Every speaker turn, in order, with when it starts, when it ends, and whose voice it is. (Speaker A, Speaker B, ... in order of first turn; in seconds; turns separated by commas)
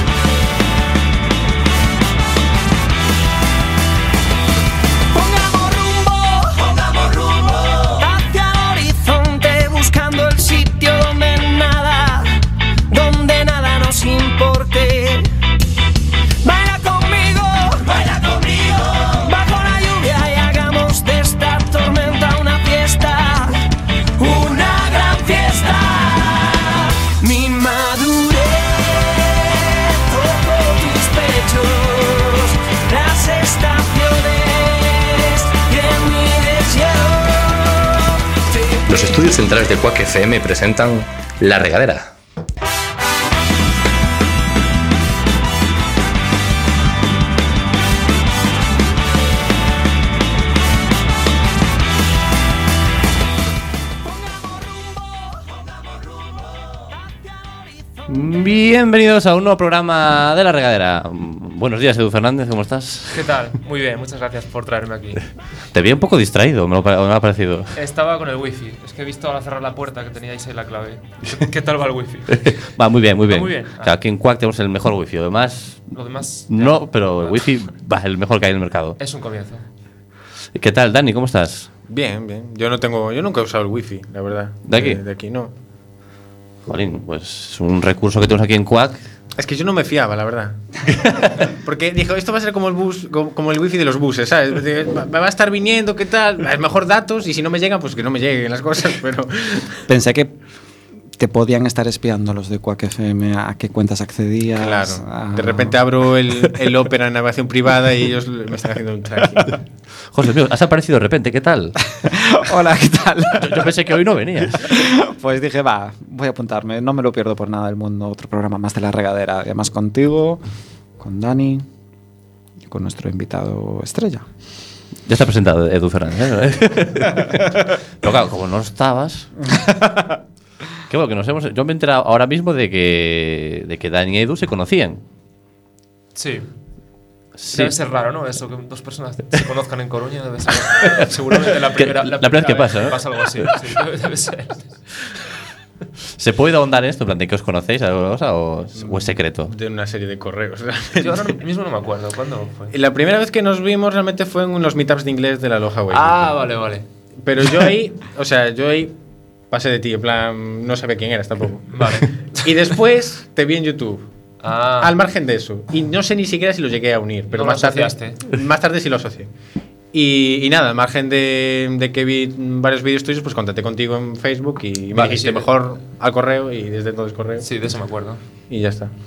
Speaker A: 5.1-12.3, Speaker A: 12.9-15.3, Speaker A: 16.4-23.6, Speaker A: 24.2-38.8, Speaker B: 38.9-42.1, Speaker C: 58.1-63.2, Speaker D: 63.1-65.2, Speaker C: 65.7-67.7, Speaker D: 67.7-72.6, Speaker C: 72.3-75.9, Speaker D: 73.3-73.9, Speaker D: 75.9-77.5, Speaker C: 76.5-79.0, Speaker D: 79.0-79.6, Speaker C: 80.5-81.7, Speaker E: 81.9-85.5, Speaker C: 84.7-85.0, Speaker C: 86.7-89.0, Speaker E: 89.4-90.6, Speaker C: 91.0-91.3, Speaker E: 91.2-99.8, Speaker F: 99.9-100.3, Speaker F: 101.2-105.7, Speaker E: 104.6-109.6, Speaker C: 110.1-111.8, Speaker F: 112.0-113.7, Speaker C: 113.4-114.8, Speaker F: 114.5-120.4, Speaker F: 121.0-121.7, Speaker F: 122.6-124.2, Speaker C: 125.0-129.4, Speaker C: 130.9-135.0, Speaker D: 136.1-136.5, Speaker C: 137.4-137.7, Speaker D: 137.5-144.7, Speaker C: 140.7-141.1, Speaker C: 141.8-143.5, Speaker C: 146.2-149.5, Speaker E: 148.8-151.3, Speaker D: 151.0-152.7, Speaker E: 152.7-156.3, Speaker D: 155.9-156.8, Speaker E: 157.2-158.9, Speaker E: 159.5-164.1, Speaker D: 161.7-162.4, Speaker D: 164.4-164.9, Speaker E: 164.8-169.3, Speaker D: 167.3-168.2, Speaker E: 169.9-177.4, Speaker D: 174.9-175.5, Speaker D: 177.4-178.2, Speaker E: 178.5-178.9